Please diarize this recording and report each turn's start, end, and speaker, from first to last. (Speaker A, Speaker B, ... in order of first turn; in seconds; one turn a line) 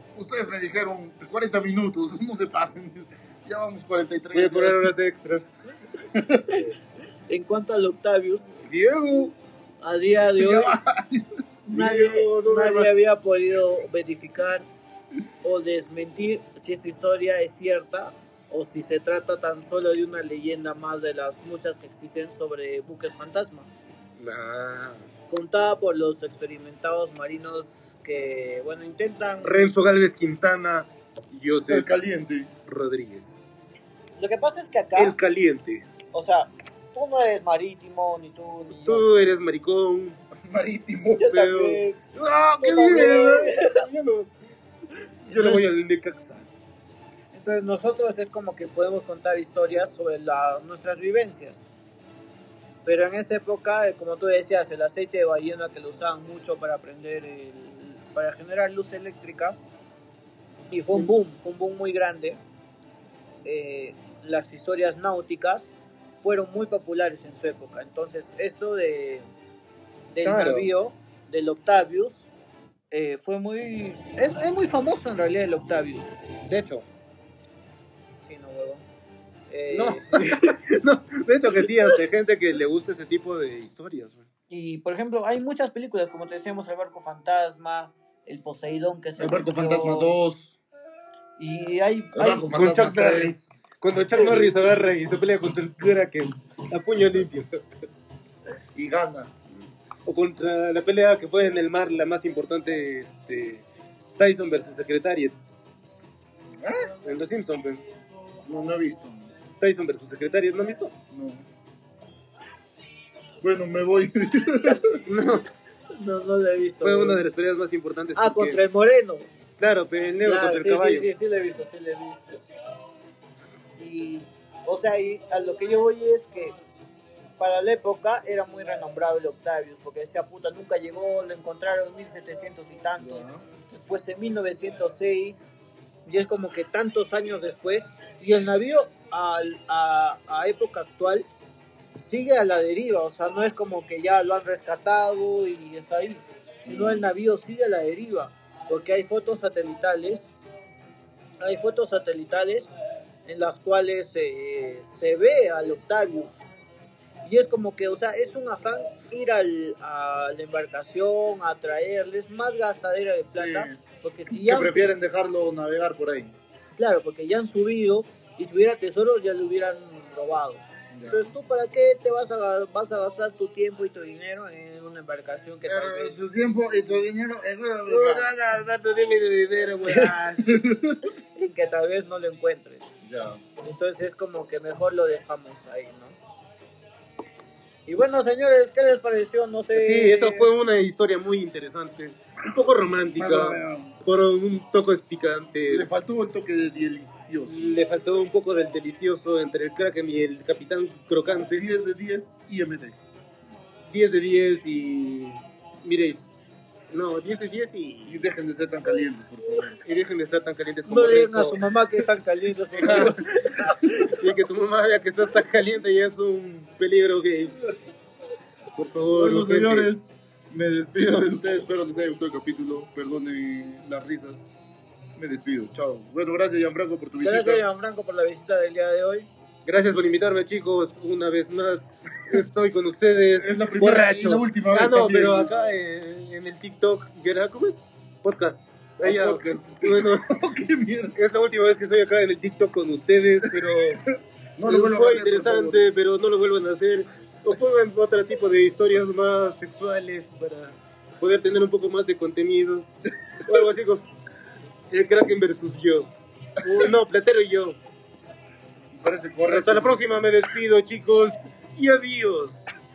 Speaker A: 0.1-4.9
Speaker B: 4.3-5.5
Speaker A: 6.1-6.5
Speaker C: 7.3-8.4
Speaker B: 8.6-9.3
Speaker C: 9.8-10.8
Speaker A: 10.4-11.3
Speaker C: 11.7-14.7
Speaker B: 11.7-12.9
Speaker C: 15.4-23.7
Speaker B: 24.2-25.0
Speaker C: 25.3-29.6
Speaker B: 29.4-31.9
Speaker A: 31.7-32.5
Speaker B: 32.7-33.4
Speaker C: 34.2-35.1
Speaker B: 35.0-35.9
Speaker C: 36.1-39.1
Speaker B: 38.7-40.2
Speaker A: 40.4-41.3
Speaker C: 41.2-42.0
Speaker B: 41.3-44.3
Speaker C: 42.6-43.8
Speaker C: 45.2-45.6
Speaker B: 45.3-46.5
Speaker C: 47.3-51.7
Speaker C: 52.8-59.6
Speaker C: 60.7-62.4
Speaker C: 63.4-69.3
Speaker C: 70.1-72.3
Speaker B: 70.2-70.7
Speaker C: 72.9-76.1
Speaker B: 76.4-76.8
Speaker C: 78.2-78.8
Speaker C: 79.5-80.6
Speaker B: 79.7-84.3
Speaker C: 81.6-82.0
Speaker C: 84.5-90.1
Speaker A: 89.2-90.5
Speaker C: 91.4-92.5
Speaker A: 92.1-93.3
Speaker B: 92.2-97.6
Speaker C: 94.2-94.5
Speaker A: 98.7-99.3
Speaker B: 100.0-103.6
Speaker B: 104.2-105.4
Speaker A: 106.6-106.9
Speaker B: 107.0-107.8
Speaker A: 108.4-109.3
Speaker B: 109.6-110.9
Speaker A: 111.1-111.5
Speaker A: 113.4-115.0
Speaker B: 115.1-115.5
Speaker C: 116.0-117.2
Speaker B: 116.8-118.6
Speaker C: 118.2-119.3
Speaker B: 119.6-121.0
Speaker C: 120.2-122.4
Speaker C: 123.8-126.5
Speaker C: 127.4-135.4
Speaker A: 133.0-133.4
Speaker C: 136.1-141.2
Speaker C: 142.0-150.3
Speaker A: 146.7-147.1
Speaker C: 151.4-152.7
Speaker C: 153.2-156.3
Speaker C: 157.2-164.9
Speaker A: 163.3-166.3
Speaker C: 166.8-176.2
Speaker A: 170.9-171.3
Speaker A: 175.7-178.3
Speaker B: 177.9-180.5
Speaker A: 180.4-181.0
Speaker C: 181.3-182.8
Speaker A: 183.0-183.4
Speaker C: 183.6-186.2
Speaker C: 187.9-190.5
Speaker B: 189.7-195.9
Speaker A: 193.2-193.9
Speaker A: 195.7-197.8
Speaker B: 197.4-201.7
Speaker A: 201.5-203.0
Speaker B: 203.8-206.2
Speaker B: 206.9-208.3
Speaker A: 208.1-209.8
Speaker B: 209.8-211.6
Speaker C: 210.9-214.2
Speaker B: 212.8-213.2
Speaker A: 212.9-213.1
Speaker B: 214.1-217.7
Speaker B: 218.7-219.9
Speaker A: 219.1-224.5
Speaker A: 225.2-227.6
Speaker C: 227.2-229.3
Speaker B: 229.7-240.3
Speaker A: 233.3-235.5
Speaker A: 239.0-241.2
Speaker B: 241.2-244.0
Speaker A: 243.4-243.9
Speaker A: 244.6-245.9
Speaker B: 244.7-252.9
Speaker B: 253.4-254.0
Speaker B: 254.9-257.8
Speaker A: 258.9-260.2
Speaker B: 259.5-262.6